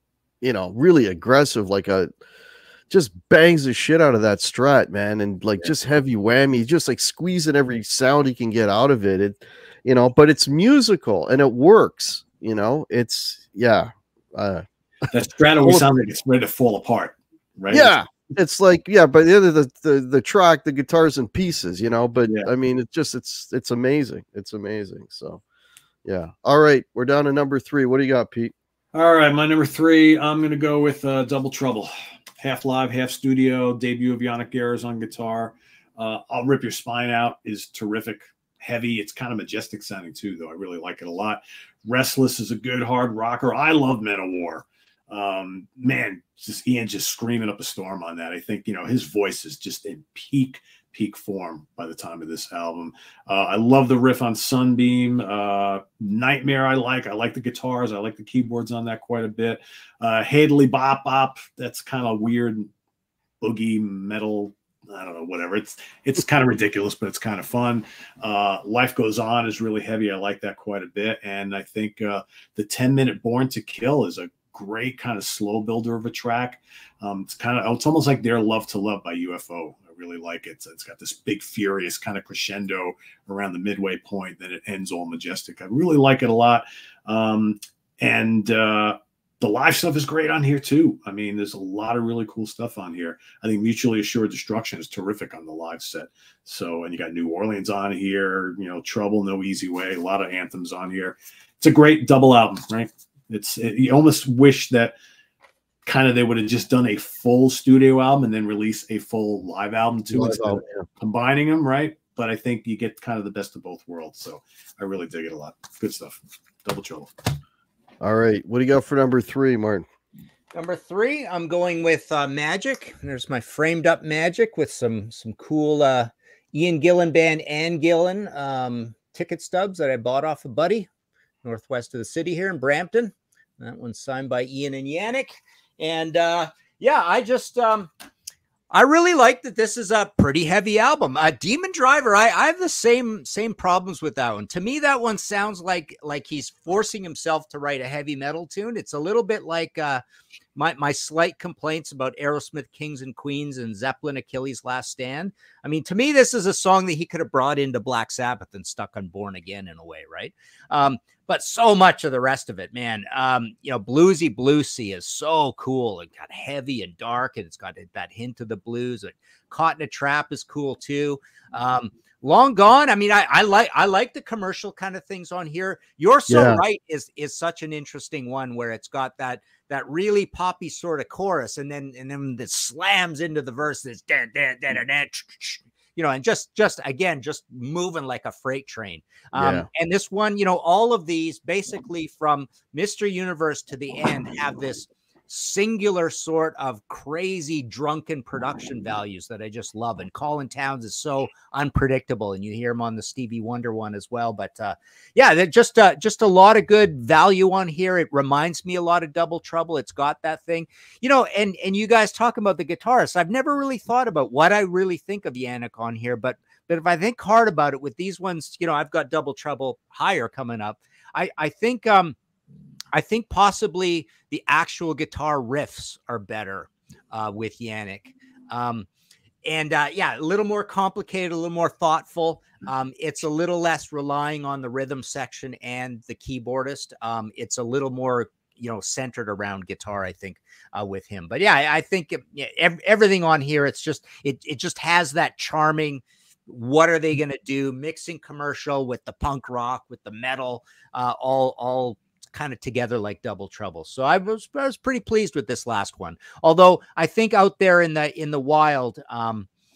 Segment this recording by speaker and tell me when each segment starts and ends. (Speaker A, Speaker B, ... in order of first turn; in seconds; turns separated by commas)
Speaker A: 0.4-2.1, Speaker A: 2.9-14.6, Speaker B: 15.1-17.9, Speaker A: 17.7-25.4, Speaker B: 22.2-22.5, Speaker A: 26.0-28.5, Speaker B: 28.9-62.7, Speaker B: 63.4-104.9, Speaker B: 105.8-117.1, Speaker A: 110.1-110.8, Speaker A: 118.0-119.8, Speaker C: 120.5-130.9, Speaker C: 131.4-137.9, Speaker C: 138.7-150.0, Speaker C: 150.5-222.2, Speaker A: 176.3-176.6, Speaker A: 189.3-189.7, Speaker C: 222.9-228.9, Speaker C: 229.4-259.5